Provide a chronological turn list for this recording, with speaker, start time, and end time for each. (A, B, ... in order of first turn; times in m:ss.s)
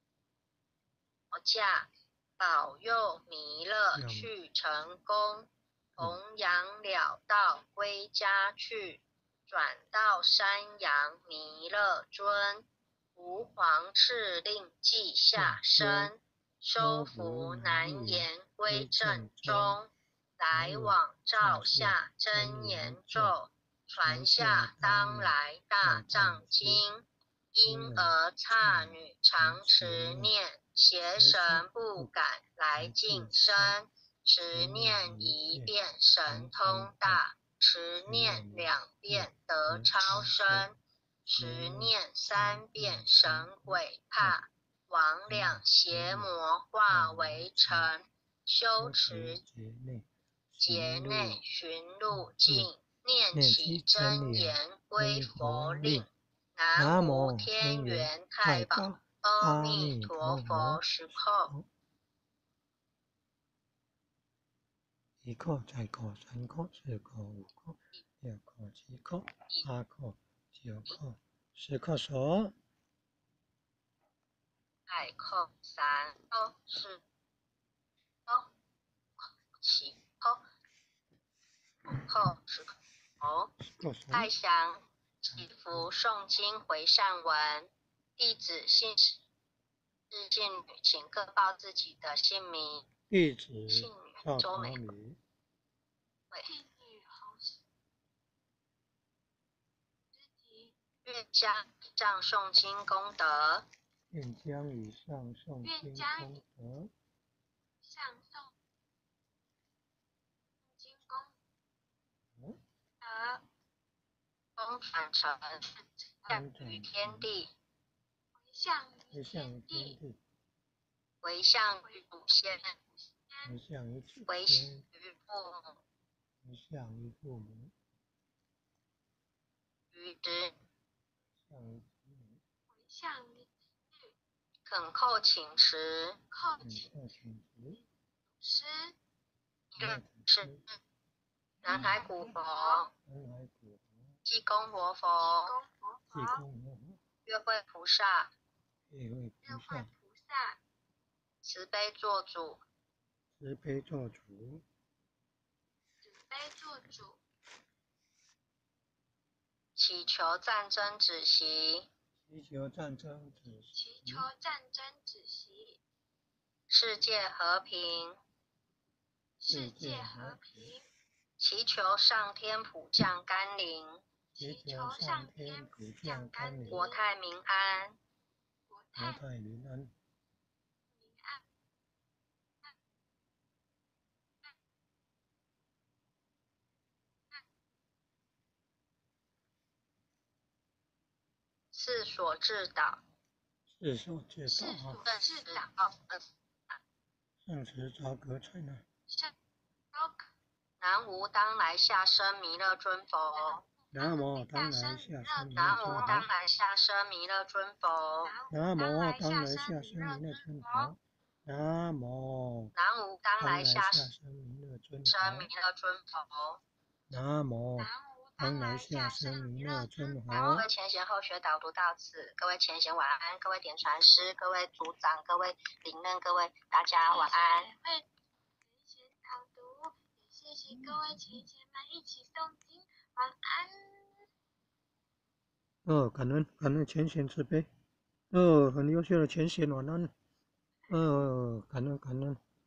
0:01.3-0:49.4 A
0:03.9-0:04.3 B
0:15.3-0:16.1 B
0:16.7-0:19.8 B
0:20.5-0:23.4 B
0:24.0-0:26.8 B
0:27.6-0:30.3 B
0:31.1-0:32.1 B
0:32.7-0:33.8 B
0:34.5-0:35.7 B
0:36.2-0:37.2 B
0:38.0-0:40.7 B
0:41.3-0:44.4 B
0:45.3-0:46.4 B
0:46.9-0:47.9 B
0:48.8-0:51.4 B
0:50.6-1:01.5 A
0:52.1-0:52.7 B
0:53.3-0:56.1 B
0:56.8-1:01.6 B
1:05.2-1:12.5 B
1:14.9-1:17.0 A
1:19.6-1:20.4 A
1:21.9-1:23.5 A
1:23.6-1:24.3 B
1:24.1-1:29.2 A
1:25.3-1:25.9 B
1:30.1-1:32.9 A
1:33.1-1:35.2 B
1:33.7-1:34.9 A
1:36.4-1:37.6 C
1:40.1-1:40.7 C
1:41.0-1:43.7 A
1:44.1-1:46.9 B
1:45.6-1:46.4 C
1:47.8-1:48.5 C
1:50.7-1:51.3 C
1:53.0-1:53.4 C
1:54.6-1:57.5 A
1:56.3-1:57.3 B
1:58.4-2:00.0 C
1:59.1-2:00.2 B
2:01.2-2:02.7 A
2:01.8-2:03.6 C
2:03.4-2:04.8 B
2:04.3-2:05.8 A
2:06.4-2:07.7 B
2:09.9-2:10.5 A
2:11.4-2:12.4 B
2:12.7-2:14.1 C
2:14.6-2:16.2 A
2:16.3-2:16.9 C
2:16.6-2:17.8 B
2:18.4-2:19.0 C
2:19.7-2:20.5 A
2:19.8-2:20.6 B
2:21.6-2:22.9 A
2:22.4-2:22.8 C
2:23.0-2:24.0 B
2:24.2-2:25.6 A
2:25.2-2:26.4 C
2:26.1-2:27.0 B
2:27.2-2:28.3 A
2:28.9-2:29.9 B
2:29.4-2:30.6 C
2:31.4-2:32.6 A
2:33.4-2:34.6 B
2:36.0-2:37.2 C
2:39.8-2:41.9 A
2:42.3-2:44.3 B
2:43.7-2:45.8 C
2:46.7-2:48.2 A
2:49.4-2:50.8 C
2:49.5-2:50.8 B
2:51.4-2:54.0 A
2:54.3-2:57.0 C
2:54.4-2:56.9 B
2:56.7-2:58.0 A
2:58.7-2:59.2 C
2:58.9-2:59.9 B
3:00.9-3:01.4 C
3:11.7-3:13.0 A
3:13.7-3:15.0 B
3:14.5-3:15.7 C
3:15.0-3:16.2 A
3:17.4-3:18.8 B
3:19.1-3:19.3 C
3:19.9-3:20.2 C
3:20.8-3:23.6 A
3:23.4-3:26.2 C
3:23.9-3:26.3 B
3:25.5-3:28.4 A
3:28.2-3:30.9 C
3:28.5-3:32.7 B
3:32.7-3:34.1 A
3:33.4-3:35.5 B
3:35.0-3:36.6 A
3:37.1-3:40.7 B
3:37.8-3:40.5 C
3:40.3-3:47.7 A
3:47.0-3:48.1 C
3:48.6-3:54.2 C
3:50.9-3:51.3 B
3:55.8-3:57.7 B
3:58.3-4:00.1 B
4:00.9-4:02.4 B